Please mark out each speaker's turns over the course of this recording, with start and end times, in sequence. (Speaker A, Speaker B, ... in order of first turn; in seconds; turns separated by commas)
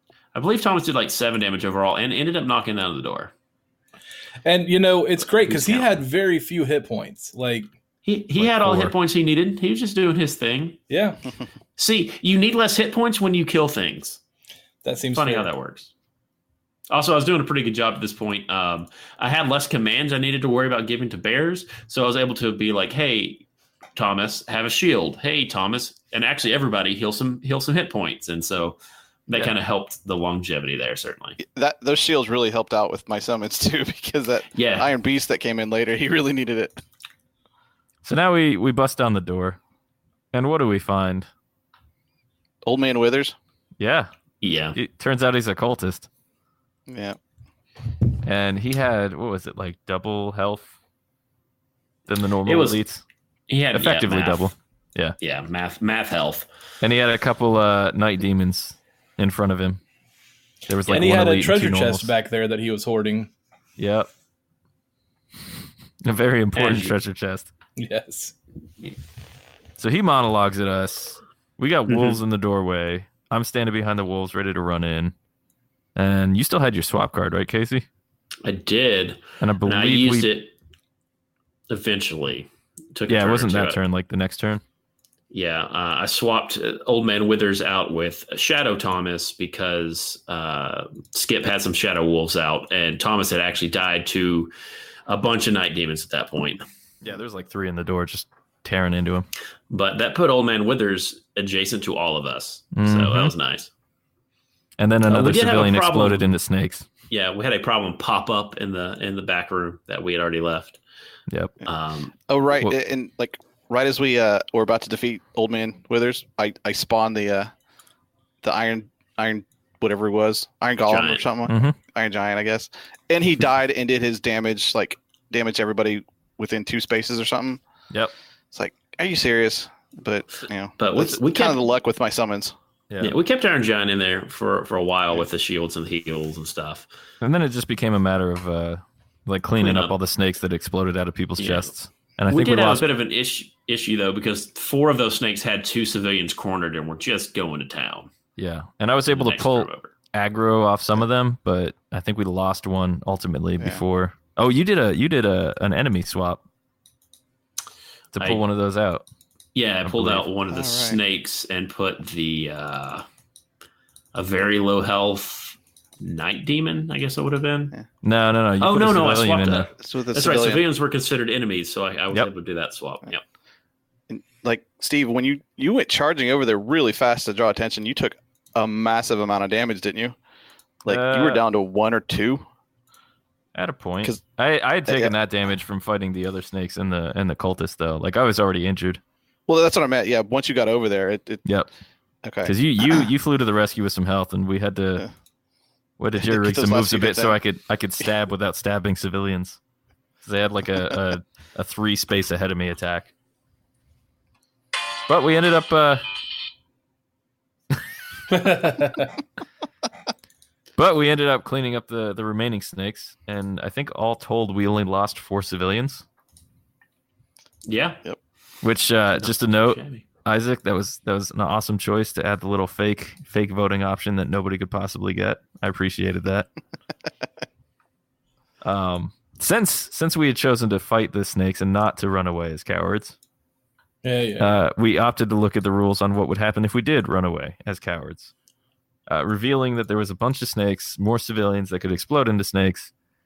Speaker A: 0.3-3.3, Speaker B: 4.4-7.7, Speaker A: 5.2-5.9, Speaker A: 8.0-10.8, Speaker C: 8.4-8.9, Speaker B: 10.9-11.2, Speaker A: 11.8-14.2, Speaker B: 14.8-15.5, Speaker A: 15.1-15.9, Speaker A: 16.9-23.4, Speaker A: 23.9-31.4, Speaker D: 31.4-36.8, Speaker A: 34.5-34.9, Speaker C: 38.0-39.6, Speaker C: 40.3-41.3, Speaker D: 42.6-43.3, Speaker C: 43.8-44.1, Speaker A: 44.4-44.8, Speaker C: 44.7-46.1, Speaker D: 46.9-47.1, Speaker C: 48.2-50.7, Speaker C: 52.1-53.0, Speaker A: 52.5-52.8, Speaker A: 53.5-54.5, Speaker C: 53.7-55.1, Speaker A: 55.2-56.5, Speaker C: 56.8-59.8, Speaker C: 60.7-62.1, Speaker A: 60.9-61.1, Speaker B: 60.9-63.3, Speaker C: 63.8-64.1, Speaker C: 66.0-67.5, Speaker A: 66.5-66.9, Speaker B: 67.8-68.3, Speaker C: 69.8-75.1, Speaker A: 71.9-72.2, Speaker C: 76.0-77.8, Speaker A: 78.4-80.5, Speaker C: 79.4-80.3, Speaker A: 81.7-83.8, Speaker C: 83.1-84.6, Speaker A: 85.3-94.5, Speaker A: 95.1-96.6, Speaker C: 97.0-99.3, Speaker A: 99.7-103.7, Speaker C: 102.7-103.3, Speaker C: 104.8-106.8, Speaker A: 105.1-106.2, Speaker A: 107.1-110.8, Speaker A: 111.6-112.1, Speaker D: 112.3-117.5, Speaker D: 118.4-127.6, Speaker A: 120.8-121.3, Speaker C: 121.5-121.7, Speaker D: 128.5-132.5, Speaker A: 130.8-131.7, Speaker C: 132.9-133.1, Speaker A: 133.0-136.9, Speaker C: 137.2-142.9, Speaker A: 139.6-140.0, Speaker A: 141.4-141.7, Speaker A: 142.3-148.1, Speaker C: 148.4-156.4, Speaker A: 149.1-149.9, Speaker C: 158.1-159.1, Speaker A: 158.2-158.4, Speaker A: 159.5-163.0, Speaker C: 159.8-160.2, Speaker D: 160.5-161.0, Speaker A: 164.1-167.7, Speaker C: 168.0-169.7, Speaker A: 168.6-173.2, Speaker D: 169.8-170.6, Speaker D: 174.1-180.1, Speaker D: 180.8-182.4, Speaker C: 180.9-181.4, Speaker C: 183.5-189.0, Speaker D: 184.9-185.1, Speaker D: 189.5-191.4, Speaker D: 192.2-193.0, Speaker C: 192.4-195.1, Speaker C: 196.0-199.6, Speaker D: 196.2-197.4, Speaker C: 200.2-203.1, Speaker C: 205.1-206.0, Speaker B: 208.3-209.2, Speaker C: 210.8-216.0, Speaker A: 217.6-218.0, Speaker C: 218.6-226.5, Speaker A: 219.2-220.1, Speaker C: 228.6-233.2, Speaker B: 234.0-234.5, Speaker C: 234.4-238.3, Speaker C: 239.1-242.9